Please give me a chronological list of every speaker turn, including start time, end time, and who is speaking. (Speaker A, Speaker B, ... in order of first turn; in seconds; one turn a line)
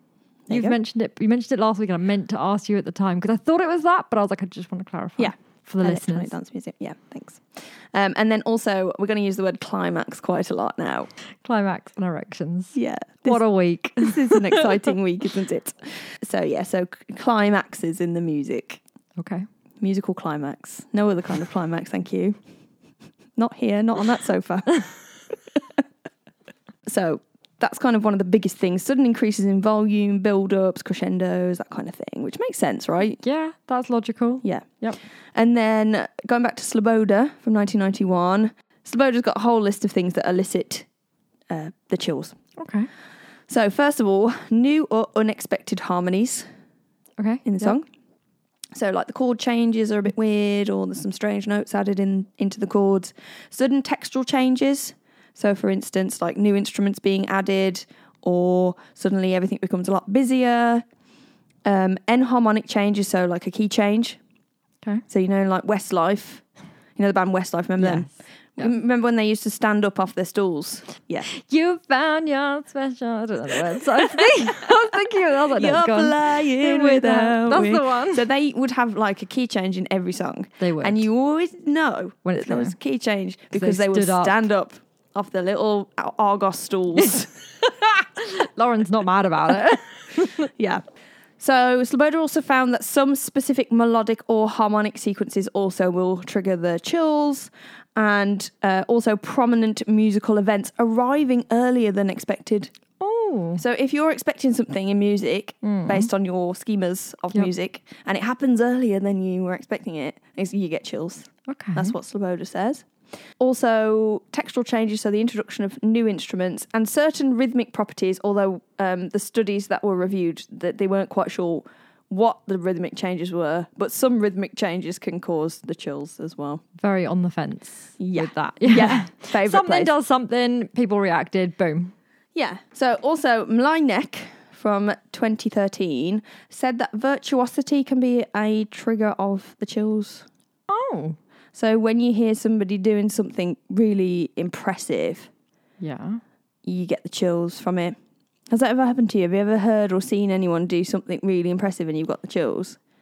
Speaker A: 0.5-0.8
Speaker B: 0.5-6.3
Speaker A: 5.2-11.1
Speaker B: 11.4-14.7
Speaker A: 12.7-18.8
Speaker B: 19.2-19.4
Speaker A: 19.8-22.4
Speaker A: 23.4-24.9
Speaker A: 26.9-33.2
Speaker B: 33.2-35.0
Speaker A: 35.3-40.9
Speaker A: 41.5-42.4
Speaker B: 42.6-42.9
Speaker A: 43.5-46.5
Speaker B: 47.2-47.8
Speaker A: 47.4-47.9
Speaker A: 48.7-60.8
Speaker A: 61.6-64.2
Speaker A: 65.1-66.4
Speaker A: 67.0-71.3
Speaker B: 67.8-68.7
Speaker B: 71.3-78.2
Speaker A: 74.4-87.3
Speaker B: 80.6-81.1
Speaker B: 82.2-82.8
Speaker B: 83.5-84.4
Speaker B: 87.6-90.5
Speaker A: 90.6-90.8
Speaker A: 91.4-102.7
Speaker B: 103.0-103.6
Speaker A: 103.6-112.8
Speaker B: 105.6-106.1
Speaker B: 111.5-111.9
Speaker A: 113.4-126.6
Speaker B: 126.8-131.9
Speaker A: 128.0-129.9
Speaker A: 132.3-140.2
Speaker B: 140.7-141.2
Speaker A: 141.5-145.3
Speaker B: 145.8-146.2
Speaker A: 146.6-147.9
Speaker A: 148.5-152.8